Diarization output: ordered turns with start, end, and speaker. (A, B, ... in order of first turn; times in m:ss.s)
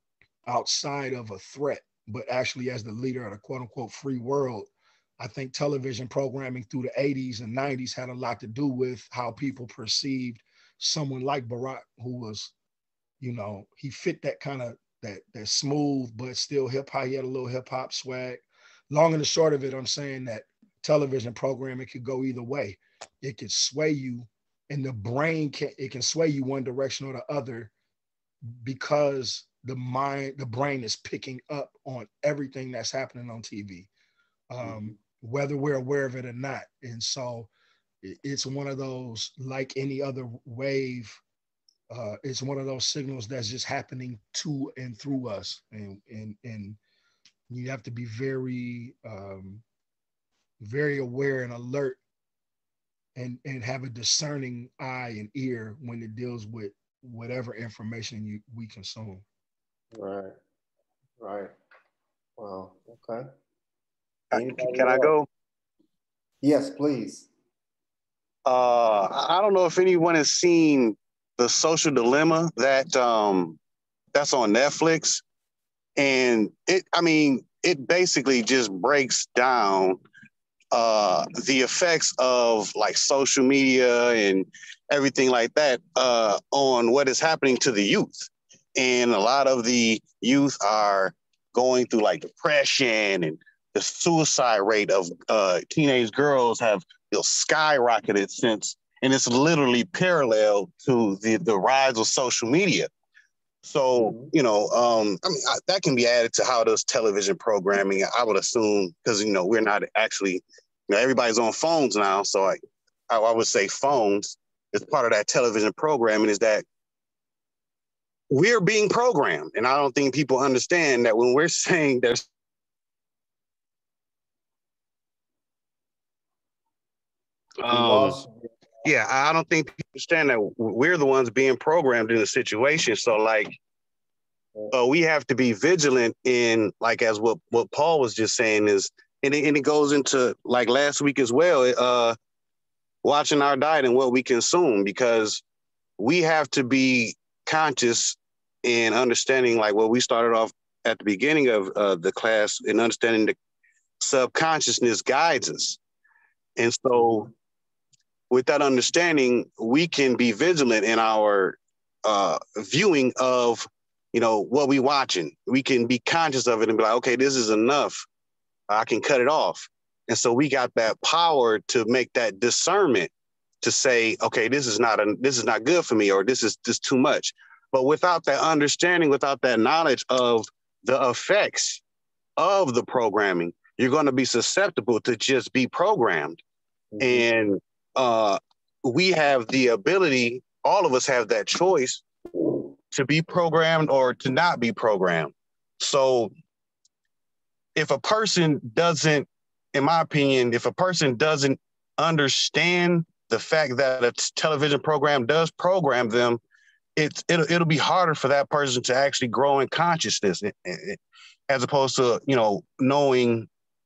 0:00.4-0:12.5 A
0:13.2-0:27.7 A
0:28.4-0:33.9 A
0:34.5-0:37.5 A
0:34.6-0:34.9 B
0:38.0-0:41.2 A
0:41.9-0:46.8 A
0:47.5-0:49.6 A
0:50.6-0:52.0 A
0:53.2-0:59.2 A
0:59.9-1:00.3 B
1:01.2-1:01.5 B
1:02.4-1:03.3 B
1:04.3-1:05.1 B
1:04.3-1:05.3 C
1:06.4-1:07.3 B
1:08.4-1:13.6 C
1:14.1-1:15.2 C
1:16.0-1:20.0 C
1:20.7-1:42.9 C
1:43.6-1:52.6 C
1:44.0-1:44.3 B
1:53.1-1:56.6 C
1:58.3-2:02.2 C
2:07.6-2:08.2 C
2:07.6-2:08.5 B
2:08.8-2:13.6 C
2:14.7-2:22.2 C
2:23.0-2:25.4 C
2:26.0-2:33.3 C
2:34.0-2:35.8 C
2:36.6-2:37.3 C
2:38.3-2:48.0 C
2:48.7-2:53.1 C
2:53.6-3:01.8 C
3:02.4-3:06.4 C
3:06.9-3:07.3 B
3:07.0-3:12.0 C
3:12.9-3:16.3 C
3:17.8-3:26.4 C
3:27.0-3:33.5 C